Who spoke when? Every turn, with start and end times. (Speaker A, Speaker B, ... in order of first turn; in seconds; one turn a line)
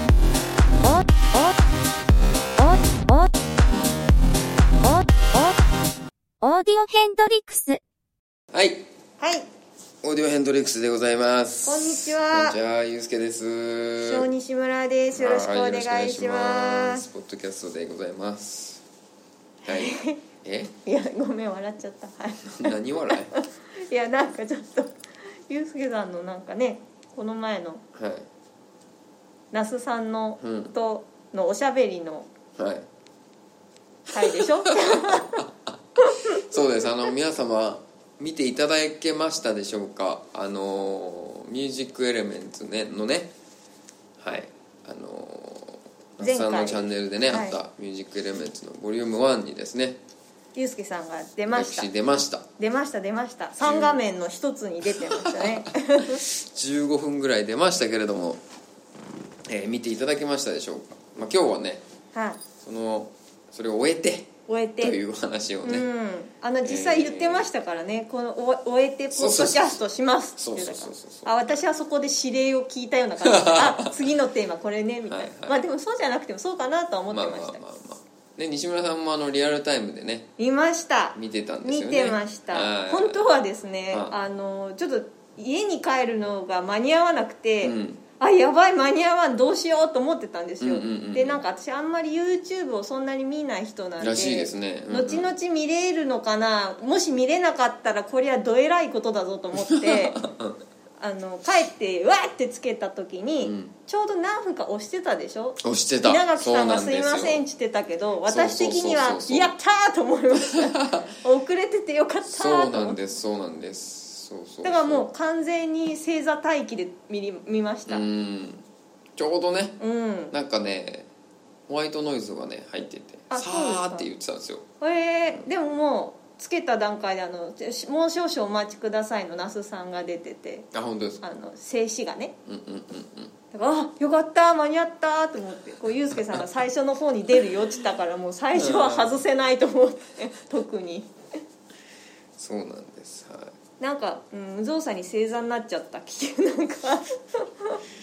Speaker A: 0.8-1.5
Speaker A: 2.6-3.3
Speaker A: 4.8-5.5
Speaker A: 6.4-7.8
Speaker B: 8.5-8.9
Speaker C: 9.2-9.5
Speaker B: 10.0-14.3
Speaker C: 11.6-12.6
Speaker C: 14.0-17.0
Speaker B: 15.1-18.8
Speaker B: 19.6-20.7
Speaker C: 19.7-20.2
Speaker C: 20.8-24.9
Speaker B: 22.4-23.3
Speaker C: 25.5-27.8
Speaker B: 27.9-28.3
Speaker C: 29.5-32.3
Speaker B: 30.4-30.7
Speaker B: 32.6-32.9
Speaker B: 34.1-43.3
Speaker C: 34.1-35.5
Speaker C: 36.0-36.4
Speaker B: 44.2-50.0
Speaker C: 46.2-47.5
Speaker C: 50.5-51.9
Speaker B: 51.5-52.5
Speaker C: 52.6-56.2
Speaker B: 53.6-54.0
Speaker B: 54.9-58.4
Speaker B: 59.5-61.8
Speaker C: 62.1-62.4
Speaker B: 62.6-65.9
Speaker C: 64.5-65.0
Speaker C: 65.6-77.6
Speaker B: 66.6-67.5
Speaker B: 69.1-69.8
Speaker B: 70.4-71.6
Speaker B: 73.2-73.9
Speaker B: 75.1-75.6
Speaker B: 77.1-80.3
Speaker C: 80.4-100.2
Speaker B: 81.1-83.3
Speaker B: 83.9-84.2
Speaker B: 87.6-88.0
Speaker B: 90.6-91.4
Speaker B: 94.0-95.3
Speaker B: 99.5-100.6
Speaker C: 101.0-113.0
Speaker B: 103.4-103.7
Speaker B: 105.6-107.4
Speaker B: 108.2-109.5
Speaker B: 110.3-111.1
Speaker B: 112.2-115.1
Speaker C: 114.6-118.0
Speaker B: 117.9-118.6
Speaker B: 119.2-119.8
Speaker C: 119.8-120.3
Speaker B: 120.3-121.1
Speaker B: 121.7-124.6
Speaker C: 123.3-124.1
Speaker C: 124.8-130.7
Speaker B: 130.7-131.2
Speaker C: 131.2-132.3
Speaker B: 132.5-133.3
Speaker C: 133.5-141.1
Speaker B: 138.5-139.2
Speaker B: 142.4-143.5
Speaker C: 143.8-147.8